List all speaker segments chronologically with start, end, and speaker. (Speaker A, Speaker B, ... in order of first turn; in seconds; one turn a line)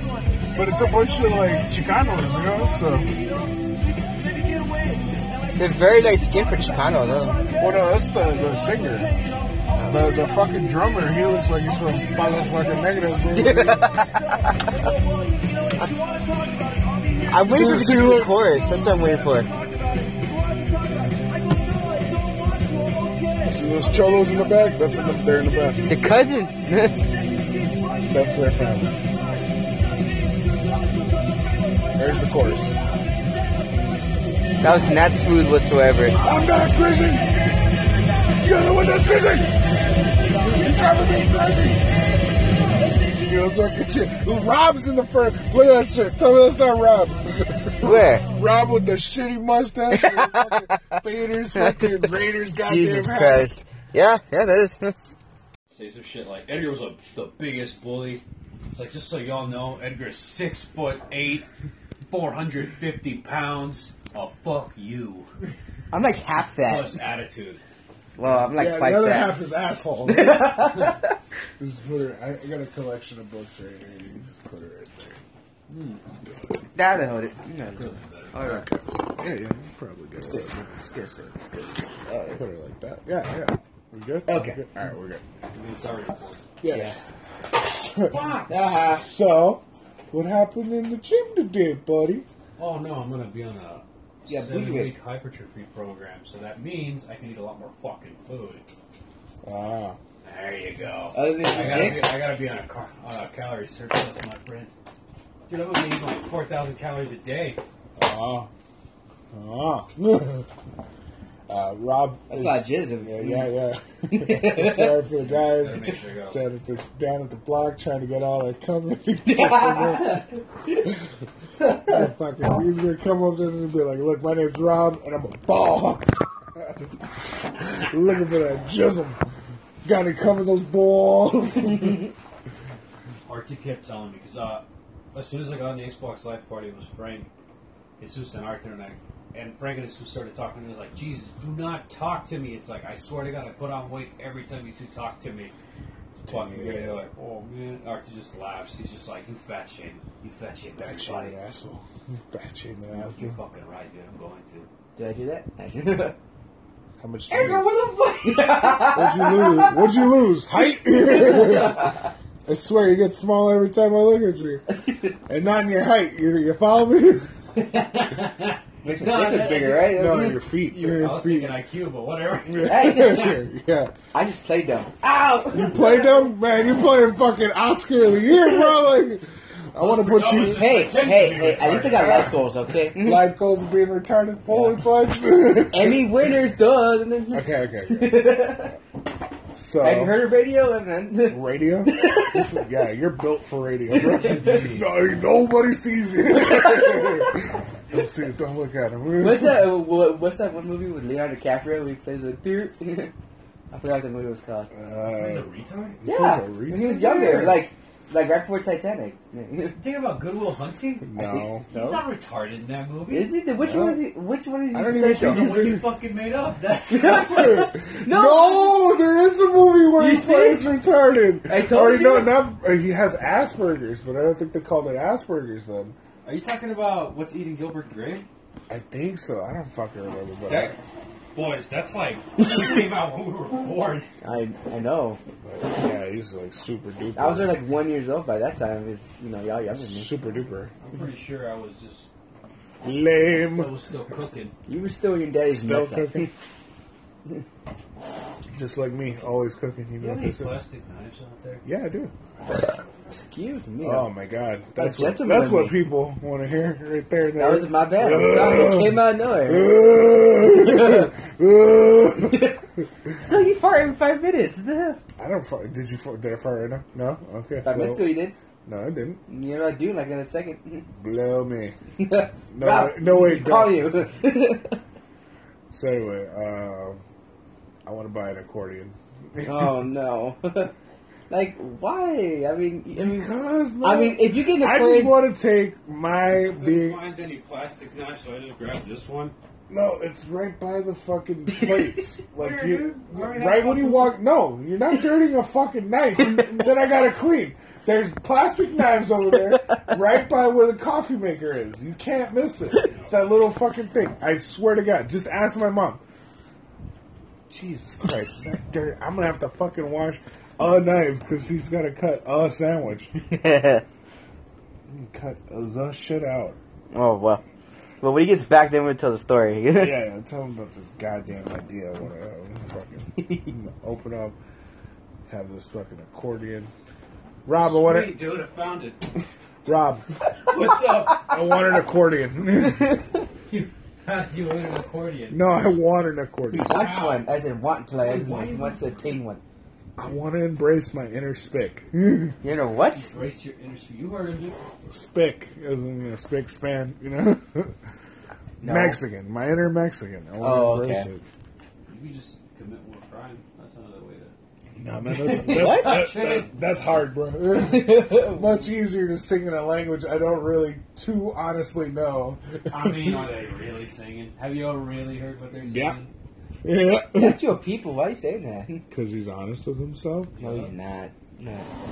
Speaker A: 0.5-3.1
Speaker B: 5.6-7.5
Speaker A: 7.6-9.1
Speaker B: 9.8-10.1
Speaker A: 9.9-14.0
Speaker B: 13.3-14.9
Speaker B: 17.2-19.5
Speaker A: 17.4-18.3
Speaker A: 23.4-26.2
Speaker B: 25.9-27.1
Speaker A: 28.0-29.0
Speaker A: 31.9-32.7
Speaker B: 34.6-36.2
Speaker A: 36.1-53.5
Speaker B: 47.8-48.2
Speaker B: 49.9-55.0
Speaker C: 55.7-61.5
Speaker C: 62.1-65.3
Speaker B: 65.9-66.9
Speaker C: 66.6-67.6
Speaker B: 68.2-69.3
Speaker A: 68.3-70.9
Speaker B: 70.1-71.1
Speaker A: 71.6-75.2
Speaker C: 75.7-76.0
Speaker A: 76.2-76.6
Speaker B: 76.7-78.7
Speaker C: 77.7-78.5
Speaker A: 78.4-80.6
Speaker B: 80.2-82.4
Speaker A: 82.3-85.2
Speaker B: 84.3-84.6
Speaker C: 85.5-86.4
Speaker A: 86.6-92.3
Speaker B: 86.7-87.0
Speaker C: 88.1-88.5
Speaker B: 88.5-89.1
Speaker C: 92.6-98.7
Speaker B: 94.3-94.9
Speaker A: 99.4-100.0
Speaker C: 100.2-104.7
Speaker B: 101.1-102.1
Speaker A: 101.6-101.9
Speaker C: 105.5-107.6
Speaker A: 108.0-108.5
Speaker A: 109.3-110.5
Speaker A: 111.5-120.2
Speaker B: 112.3-113.5
Speaker B: 114.1-115.0
Speaker C: 115.2-116.4
Speaker B: 119.2-120.3
Speaker A: 120.8-121.1
Speaker A: 121.6-129.2
Speaker A: 129.8-132.1
Speaker C: 133.2-137.3
Speaker C: 138.0-145.5
Speaker C: 146.2-151.3
Speaker A: 146.2-147.0
Speaker A: 150.8-153.4
Speaker C: 152.9-154.7
Speaker B: 154.9-156.2
Speaker A: 157.0-157.7
Speaker B: 157.3-159.8
Speaker C: 157.3-158.6
Speaker A: 158.7-164.7
Speaker B: 161.1-162.0
Speaker A: 165.2-167.3
Speaker C: 167.6-173.4
Speaker B: 168.8-170.4
Speaker A: 169.9-171.6
Speaker A: 172.5-173.9
Speaker B: 172.6-173.3
Speaker B: 174.1-175.4
Speaker C: 175.0-176.2
Speaker A: 175.5-180.7
Speaker C: 179.8-182.3
Speaker B: 180.5-183.3
Speaker A: 181.9-186.2
Speaker B: 185.7-188.8
Speaker A: 187.3-188.4
Speaker A: 189.5-190.2
Speaker B: 189.8-192.4
Speaker A: 191.2-199.7
Speaker B: 193.9-194.7
Speaker C: 194.0-194.9
Speaker B: 196.8-197.1
Speaker B: 199.2-203.1
Speaker B: 203.7-204.7
Speaker A: 204.7-207.0
Speaker C: 205.0-206.0
Speaker B: 206.1-209.8
Speaker C: 206.8-207.7
Speaker C: 209.8-211.0
Speaker A: 211.0-211.7
Speaker B: 211.2-212.0
Speaker C: 211.7-213.3
Speaker B: 213.1-215.8
Speaker A: 213.6-214.0
Speaker A: 214.7-215.8
Speaker C: 215.1-217.7
Speaker B: 216.9-218.9
Speaker A: 217.1-225.9
Speaker B: 220.0-220.7
Speaker B: 221.5-222.4
Speaker C: 226.2-228.3
Speaker A: 228.7-230.8
Speaker C: 230.5-230.8
Speaker C: 231.3-234.1
Speaker B: 234.2-235.2
Speaker A: 235.4-237.5
Speaker B: 237.2-240.1
Speaker A: 239.7-240.7
Speaker C: 240.8-242.1
Speaker A: 242.8-243.7
Speaker C: 243.3-244.5
Speaker B: 244.7-246.3
Speaker A: 245.4-246.3
Speaker A: 248.5-250.6
Speaker C: 250.0-251.6
Speaker A: 251.6-252.1
Speaker C: 252.3-253.1
Speaker B: 253.1-254.1
Speaker A: 253.8-263.1
Speaker B: 254.8-255.7
Speaker B: 257.4-259.8
Speaker B: 260.5-261.1
Speaker B: 262.2-262.6
Speaker B: 263.2-265.0
Speaker A: 265.2-269.2
Speaker B: 267.6-268.3
Speaker B: 269.3-270.9
Speaker A: 270.9-271.8
Speaker B: 272.0-274.8
Speaker A: 272.5-273.9
Speaker A: 275.7-277.0
Speaker A: 277.8-279.7
Speaker B: 279.4-280.7
Speaker B: 281.3-285.2
Speaker A: 282.9-287.0
Speaker C: 286.4-289.3
Speaker A: 289.7-306.0
Speaker C: 292.3-294.2
Speaker C: 302.8-303.1
Speaker A: 307.5-313.1
Speaker B: 313.2-313.8
Speaker A: 314.9-316.6
Speaker B: 316.9-317.4
Speaker B: 318.0-320.0
Speaker A: 319.8-324.4
Speaker B: 323.2-323.5
Speaker A: 325.3-326.7
Speaker A: 327.4-328.2
Speaker C: 327.5-329.2
Speaker A: 329.6-330.1
Speaker C: 330.4-331.5
Speaker A: 331.2-333.0
Speaker C: 333.5-335.4
Speaker A: 335.3-336.8
Speaker B: 336.5-339.4
Speaker C: 336.6-337.3
Speaker C: 338.0-339.1
Speaker A: 340.0-342.4
Speaker B: 342.4-343.1
Speaker C: 342.9-344.6
Speaker A: 344.9-347.8
Speaker B: 348.6-349.0
Speaker A: 348.6-351.2
Speaker B: 350.4-351.1
Speaker C: 351.9-354.3
Speaker A: 354.8-363.2
Speaker C: 355.2-356.5
Speaker B: 355.4-356.3
Speaker B: 357.5-358.7
Speaker C: 362.7-366.1
Speaker A: 365.6-366.0
Speaker A: 366.6-367.4
Speaker B: 367.1-368.8
Speaker A: 368.9-370.7
Speaker B: 370.4-371.7